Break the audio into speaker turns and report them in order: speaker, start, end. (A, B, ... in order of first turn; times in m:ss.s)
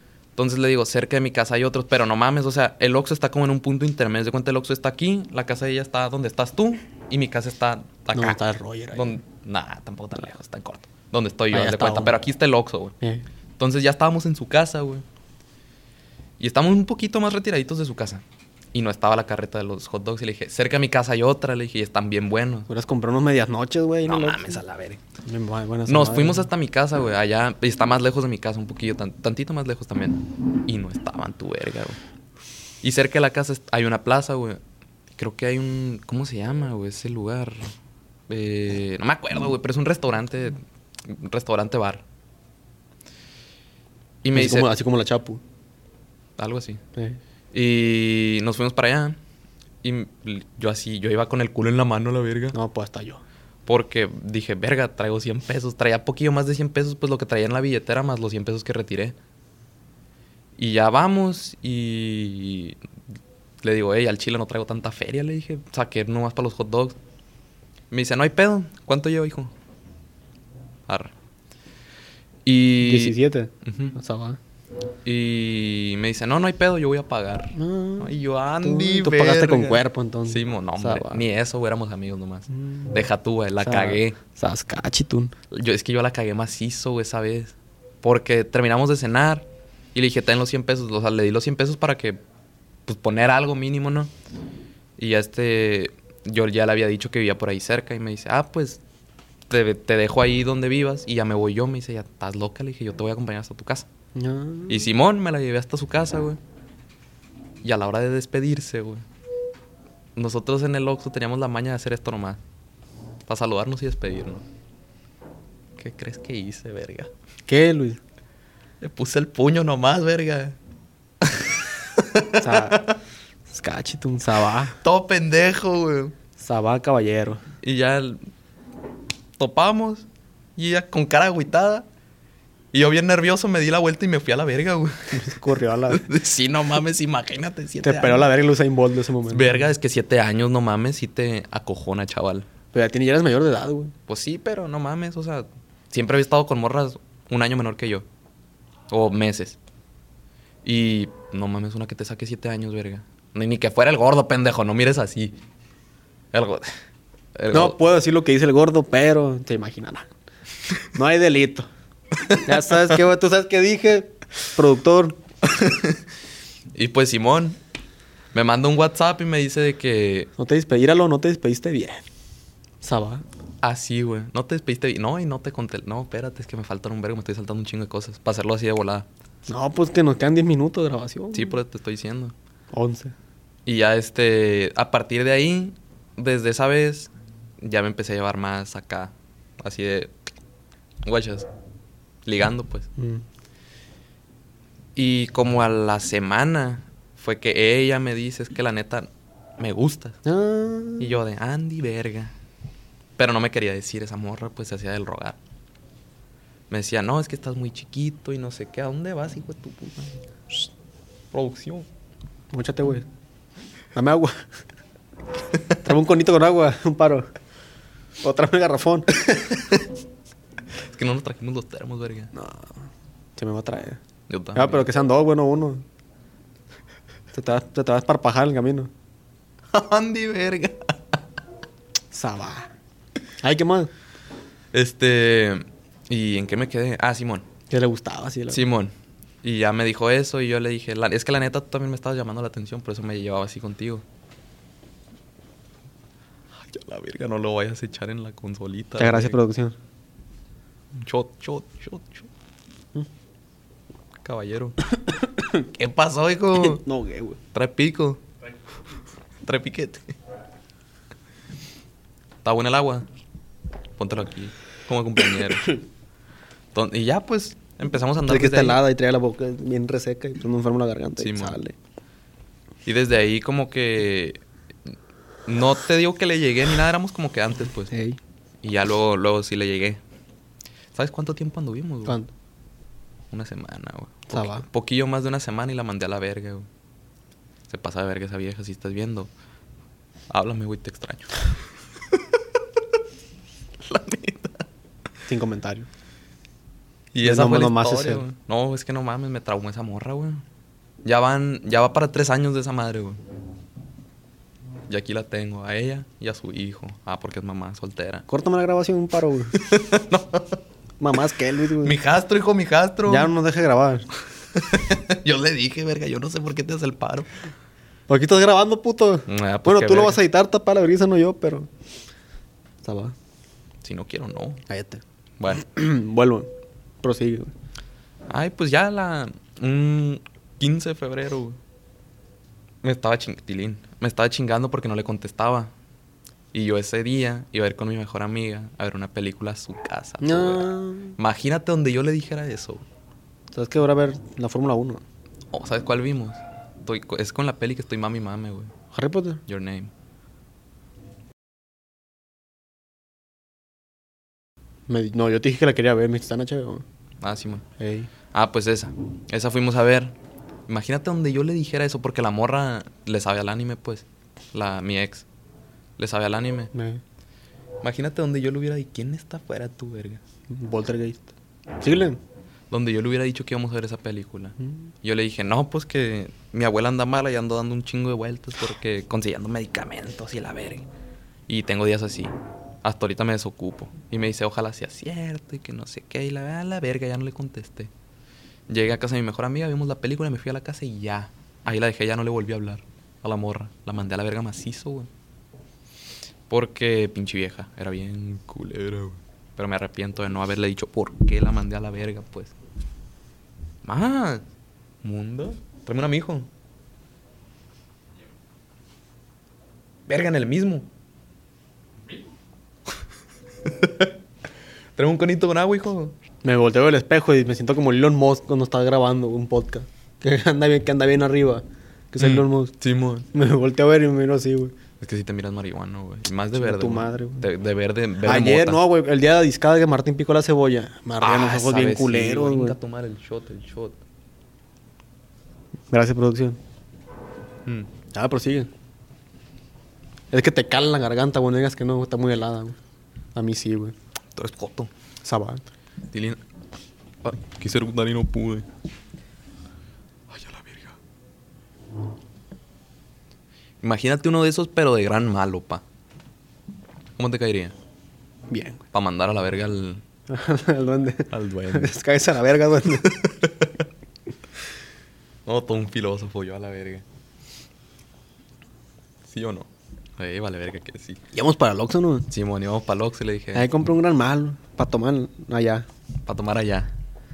0:00.4-0:08.4 A
0:08.1-0:09.2 B
0:08.9-0:12.9 A
0:11.5-0:12.2 B
0:13.6-0:15.0 A
0:16.4-0:18.2 A
0:18.7-0:22.7 A
0:22.7-0:24.6 B
0:24.0-0:25.0 A
0:25.2-0:26.5 B
0:25.9-0:32.0 A
0:32.8-0:34.6 A
0:35.2-0:37.7 A
0:38.3-0:42.0 A
0:44.2-0:44.7 A
0:44.3-0:45.4 B
0:46.4-0:46.8 A
0:47.5-0:49.2 A
0:49.8-0:52.6 A
0:52.5-0:53.2 B
0:53.7-0:59.2 A
1:00.6-1:02.8 A
1:03.6-1:07.0 A
1:07.9-1:09.5 A
1:12.5-1:14.0 A
1:12.8-1:14.4 B
1:15.0-1:24.2 A
1:17.6-1:21.2 B
1:22.5-1:22.9 B
1:23.6-1:25.3 B
1:25.5-1:32.2 A
1:32.9-1:34.1 A
1:35.0-1:38.8 A
1:39.5-1:43.9 A
1:44.2-1:44.9 B
1:44.7-1:46.4 A
1:47.6-1:49.0 A
1:50.2-1:52.4 A
1:53.3-1:54.4 A
1:55.8-1:57.1 A
1:57.5-1:58.0 B
1:58.8-2:00.6 A
2:01.2-2:02.9 A
2:02.4-2:02.8 B
2:03.5-2:04.8 B
2:04.8-2:06.1 A
2:06.4-2:07.4 B
2:07.6-2:08.2 A
2:09.4-2:10.1 A
2:10.6-2:11.9 A
2:12.7-2:18.3 A
2:15.1-2:16.0 B
2:17.8-2:19.6 B
2:19.3-2:22.5 A
2:22.7-2:23.9 B
2:24.1-2:28.0 A
2:28.9-2:29.6 A
2:30.6-2:35.4 A
2:36.3-2:36.7 A
2:37.4-2:37.8 A
2:37.5-2:40.1 B
2:41.0-2:41.7 B
2:42.4-2:45.2 B
2:45.5-2:46.0 A
2:46.7-2:47.6 A
2:48.3-2:50.3 A
2:50.4-2:52.0 B
2:52.8-2:53.2 B
2:53.6-2:59.1 A
2:59.5-3:01.6 B
3:01.3-3:02.3 A
3:02.7-3:03.1 B
3:03.7-3:10.1 A
3:11.0-3:11.5 A
3:12.3-3:12.9 A
3:13.0-3:13.2 B
3:15.0-3:20.2 A
3:20.2-3:21.2 B
3:21.0-3:22.3 A
3:23.2-3:25.4 A
3:26.7-3:30.7 A
3:31.3-3:31.9 A
3:32.5-3:33.1 B
3:34.0-3:34.4 B
3:35.8-3:37.3 B
3:38.2-3:39.2 B
3:39.3-3:39.8 A
3:40.9-3:42.3 A
3:42.4-3:42.8 B
3:43.4-3:44.0 B
3:44.3-3:44.9 A
3:44.6-3:45.8 B
3:47.3-3:48.9 B
3:49.7-3:51.2 A
3:52.1-3:52.7 B
3:53.4-3:53.9 B
3:54.7-3:57.5 A
3:57.7-3:58.6 B
3:58.5-3:58.9 A
3:59.4-4:04.0 A
4:06.6-4:09.4 A
4:09.0-4:09.8 B
4:11.0-4:12.3 A
4:14.2-4:14.8 A
4:15.4-4:15.7 B
4:15.8-4:16.8 A
4:16.5-4:17.4 B
4:17.5-4:18.2 A
4:19.4-4:20.1 A
4:22.4-4:23.1 A
4:24.0-4:25.8 A
4:26.7-4:28.8 A
4:28.3-4:31.8 B
4:31.2-4:31.6 A
4:32.9-4:34.9 A
4:35.5-4:37.9 A
4:37.9-4:38.2 B
4:38.6-4:40.0 A
4:40.9-4:42.2 A
4:43.3-4:46.7 A
4:44.3-4:44.6 B
4:47.7-4:49.3 A
4:50.3-4:51.6 A
4:53.8-4:54.6 A
4:55.3-4:55.9 B
4:57.1-5:00.4 A
4:57.2-4:58.2 B
5:01.0-5:03.2 A
5:04.9-5:08.2 A
5:08.3-5:09.6 B
5:09.6-5:10.6 A
5:11.0-5:12.0 B
5:11.8-5:13.3 A
5:13.1-5:14.1 B
5:14.6-5:17.3 A
5:18.1-5:21.7 B
5:19.3-5:20.2 A
5:22.8-5:23.2 B
5:23.8-5:24.6 A
5:24.7-5:26.5 B
5:25.4-5:25.6 A
5:27.0-5:27.5 B
5:28.3-5:31.6 A
5:32.8-5:35.7 A
5:36.5-5:42.8 A
5:40.2-5:41.2 B
5:43.5-5:45.0 B
5:45.5-5:48.7 A
5:48.9-5:49.4 B
5:49.5-5:49.9 A
5:54.9-5:56.8 B
5:57.2-5:57.6 A
5:57.8-5:58.1 B
5:58.3-6:00.1 A
6:00.7-6:05.2 A
6:06.0-6:06.7 A
6:06.7-6:07.0 B
6:07.8-6:10.2 A
6:10.5-6:11.3 B
6:11.8-6:12.2 B
6:12.7-6:20.9 A
6:21.5-6:22.3 A
6:22.8-6:27.9 A
6:28.7-6:35.1 A
6:36.5-6:42.5 A
6:43.8-6:44.4 A
6:45.0-6:46.5 A
6:50.1-6:50.9 A
6:53.6-6:54.1 A
6:55.0-6:56.2 A
6:56.4-7:02.7 B
7:02.2-7:03.3 A
7:03.3-7:04.8 B
7:05.0-7:08.8 A
7:06.6-7:07.5 B
7:08.2-7:12.8 B
7:11.2-7:14.0 A
7:15.9-7:16.6 B
7:18.1-7:18.7 B
7:20.3-7:22.8 B
7:23.4-7:24.0 B
7:24.4-7:24.9 A
7:25.2-7:25.6 B
7:26.1-7:26.4 A
7:27.2-7:28.7 A
7:30.3-7:31.0 A
7:33.8-7:35.8 A
7:37.2-7:37.7 A
7:38.5-7:38.8 B
7:38.9-7:40.0 A
7:40.3-7:43.2 B
7:41.3-7:42.0 A
7:43.1-7:43.7 A
7:45.5-7:47.0 A
7:49.3-7:51.2 A
7:51.3-7:52.3 B
7:52.3-7:53.7 A
7:53.6-7:55.9 B
7:56.3-7:56.9 A